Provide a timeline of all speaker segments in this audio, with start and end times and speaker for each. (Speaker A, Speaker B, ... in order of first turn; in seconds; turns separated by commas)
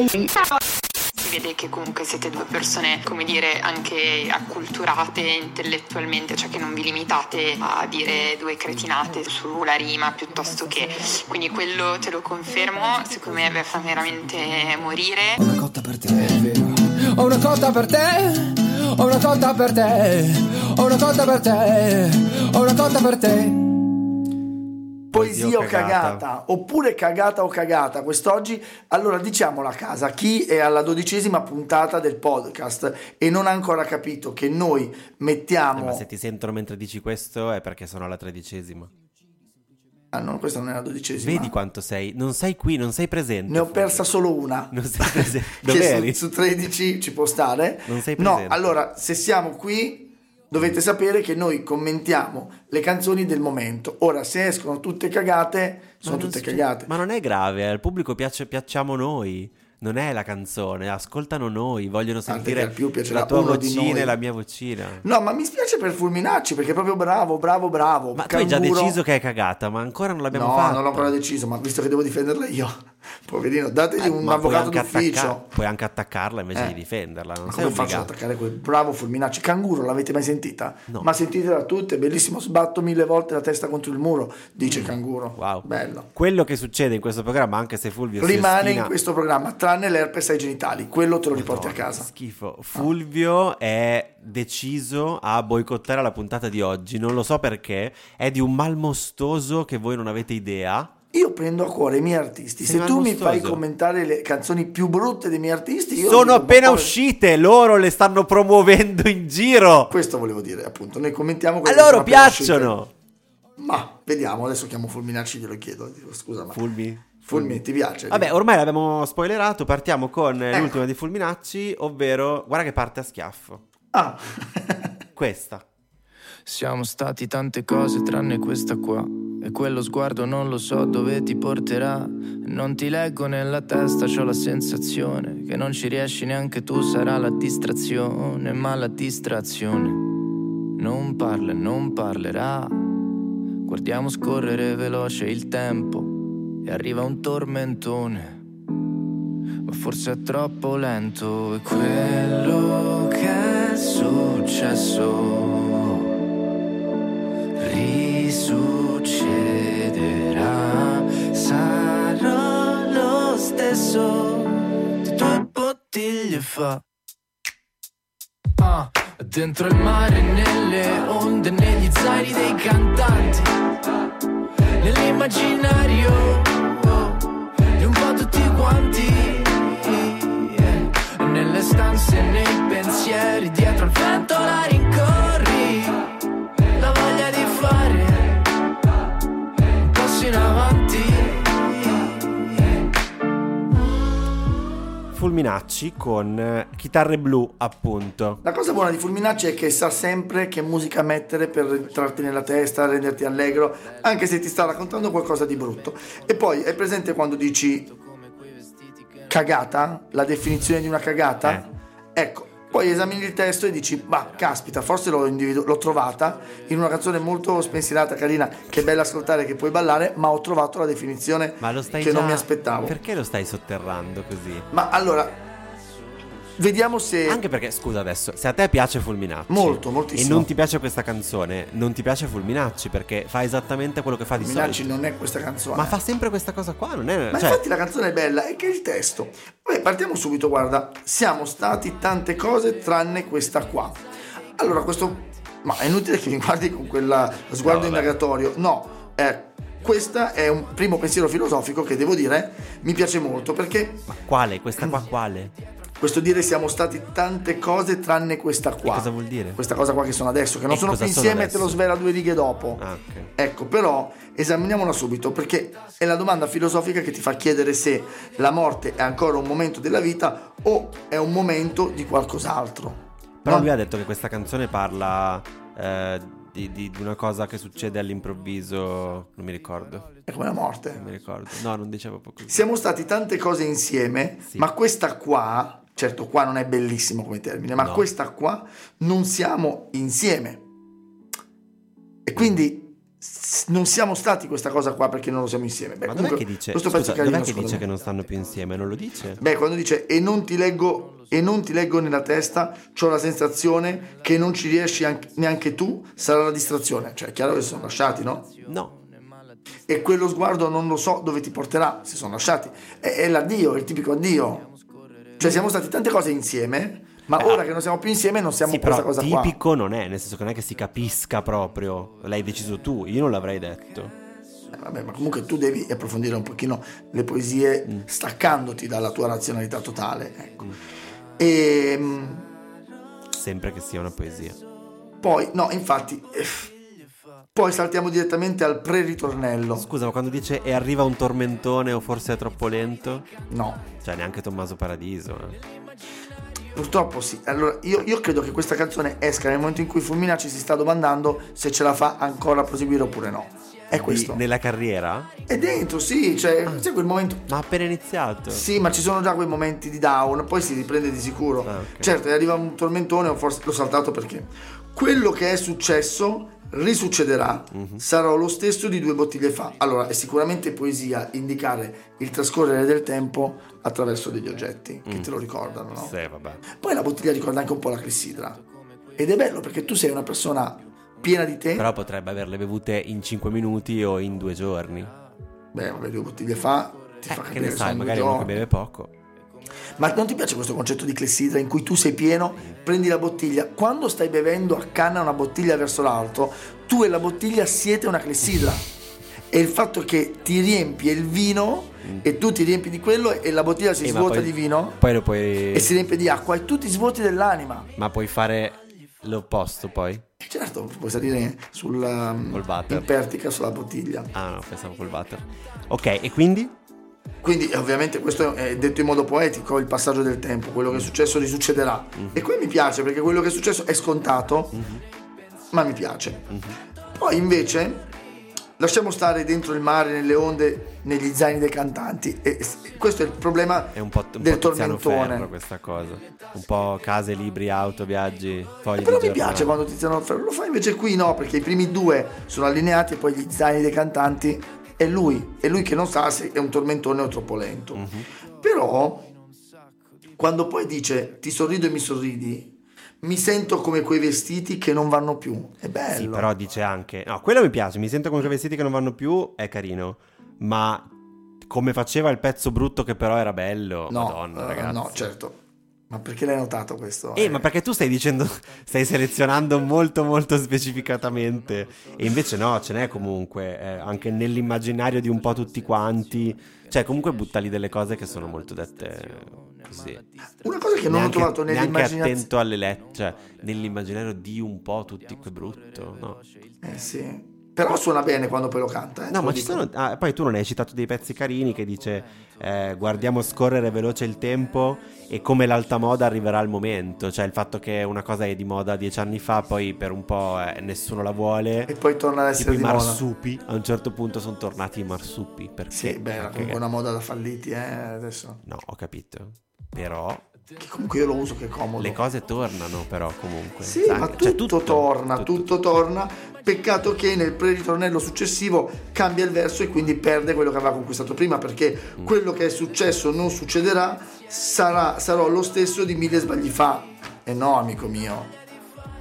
Speaker A: 1.2-15.4, Speaker B: 15.4-23.7, Speaker C: 25.1-36.0, Speaker D: 25.1-26.2, Speaker D: 35.7-38.9, Speaker C: 40.1-41.5, Speaker D: 41.1-44.0, Speaker C: 43.5-56.9, Speaker D: 44.7-46.2, Speaker D: 47.8-48.7, Speaker D: 56.0-65.0, Speaker C: 62.2-64.1, Speaker C: 65.0-69.0, Speaker D: 68.1-71.1, Speaker C: 70.3-75.5, Speaker D: 74.0-78.1, Speaker C: 77.4-86.1, Speaker D: 84.6-88.9, Speaker C: 88.2-92.1, Speaker D: 91.3-100.9, Speaker C: 101.1-106.9, Speaker D: 102.6-103.6, Speaker D: 106.0-109.9, Speaker C: 109.9-112.7, Speaker D: 111.6-112.9, Speaker C: 113.6-116.6, Speaker D: 116.5-123.6, Speaker C: 117.2-118.3, Speaker C: 120.5-120.8, Speaker C: 123.9-124.9, Speaker D: 125.2-125.6, Speaker E: 126.5-142.9, Speaker E: 143.7-148.4, Speaker E: 149.7-156.1, Speaker E: 157.6-166.8, Speaker E: 168.6-173.6, Speaker E: 174.8-186.0, Speaker E: 186.7-188.5, Speaker E: 189.8-192.4, Speaker D: 195.1-198.4, Speaker C: 198.4-207.9, Speaker E: 203.5-209.7, Speaker C: 209.3-223.0, Speaker D: 211.4-211.7, Speaker E: 212.7-214.9, Speaker E: 216.1-218.1, Speaker D: 221.6-224.7, Speaker C: 224.7-225.4, Speaker C: 226.6-227.4, Speaker D: 227.2-235.0, Speaker C: 229.5-230.5, Speaker C: 234.4-236.0, Speaker D: 235.7-237.6, Speaker C: 237.3-244.0, Speaker C: 244.6-254.0, Speaker D: 247.5-248.2, Speaker D: 254.1-255.5, Speaker C: 256.0-262.8, Speaker D: 258.8-259.6, Speaker D: 260.7-261.8, Speaker D: 262.8-263.3, Speaker C: 263.4-273.7, Speaker D: 273.4-280.1, Speaker E: 277.8-281.3, Speaker C: 280.3-281.0, Speaker D: 280.9-282.7, Speaker C: 282.5-290.6, Speaker D: 287.8-288.1, Speaker C: 292.2-297.9, Speaker D: 296.0-299.4, Speaker E: 297.9-298.8, Speaker C: 299.4-308.5, Speaker E: 300.8-301.4, Speaker E: 307.7-309.8, Speaker D: 308.6-308.9, Speaker C: 309.9-314.6, Speaker E: 314.5-315.7, Speaker C: 315.4-319.6, Speaker D: 317.4-317.6, Speaker D: 318.6-324.1, Speaker E: 322.1-323.1, Speaker E: 323.8-324.1, Speaker C: 324.7-330.6, Speaker C: 331.4-332.5, Speaker D: 333.3-334.6, Speaker C: 335.2-336.7, Speaker E: 337.0-337.4, Speaker C: 337.5-339.9, Speaker D: 339.8-343.3, Speaker C: 343.5-343.8, Speaker D: 344.0-345.6, Speaker C: 346.7-354.4, Speaker D: 353.9-355.3, Speaker C: 355.5-357.5, Speaker D: 357.5-358.7, Speaker C: 358.5-376.1, Speaker D: 361.6-362.1, Speaker D: 367.7-368.0, Speaker E: 374.0-374.7, Speaker D: 375.1-375.3, Speaker D: 375.9-376.6, Speaker C: 376.7-378.6, Speaker E: 378.2-379.9, Speaker C: 379.2-381.9, Speaker D: 381.8-385.1, Speaker E: 384.9-385.4, Speaker C: 385.7-388.6, Speaker E: 386.9-387.5, Speaker D: 387.3-389.1, Speaker C: 389.9-398.9, Speaker C: 399.5-405.0, Speaker D: 404.0-405.9, Speaker C: 405.7-407.9, Speaker D: 407.9-410.2, Speaker C: 410.4-414.3, Speaker D: 412.5-413.1, Speaker D: 414.3-416.7, Speaker C: 417.4-424.8, Speaker D: 422.1-422.4, Speaker D: 424.7-425.0, Speaker C: 425.7-426.6, Speaker D: 426.5-426.8, Speaker C: 427.1-428.1, Speaker C: 428.8-435.5, Speaker D: 433.9-439.8, Speaker C: 439.0-448.0, Speaker D: 447.9-448.3, Speaker C: 448.6-449.3, Speaker E: 448.9-450.2, Speaker C: 450.4-456.5, Speaker D: 456.1-461.1, Speaker D: 461.6-465.3, Speaker C: 464.1-465.6, Speaker C: 466.1-467.7, Speaker D: 467.4-480.2, Speaker E: 469.7-473.4, Speaker E: 474.0-481.3, Speaker C: 480.6-482.5, Speaker D: 481.1-486.4, Speaker E: 482.9-484.3, Speaker E: 485.0-487.1, Speaker C: 486.8-489.9, Speaker D: 489.3-501.9, Speaker E: 491.5-493.8, Speaker C: 501.9-503.2, Speaker D: 502.6-506.8, Speaker C: 505.9-508.6, Speaker D: 508.6-510.4, Speaker C: 510.8-512.2, Speaker D: 512.0-515.7, Speaker C: 513.8-528.5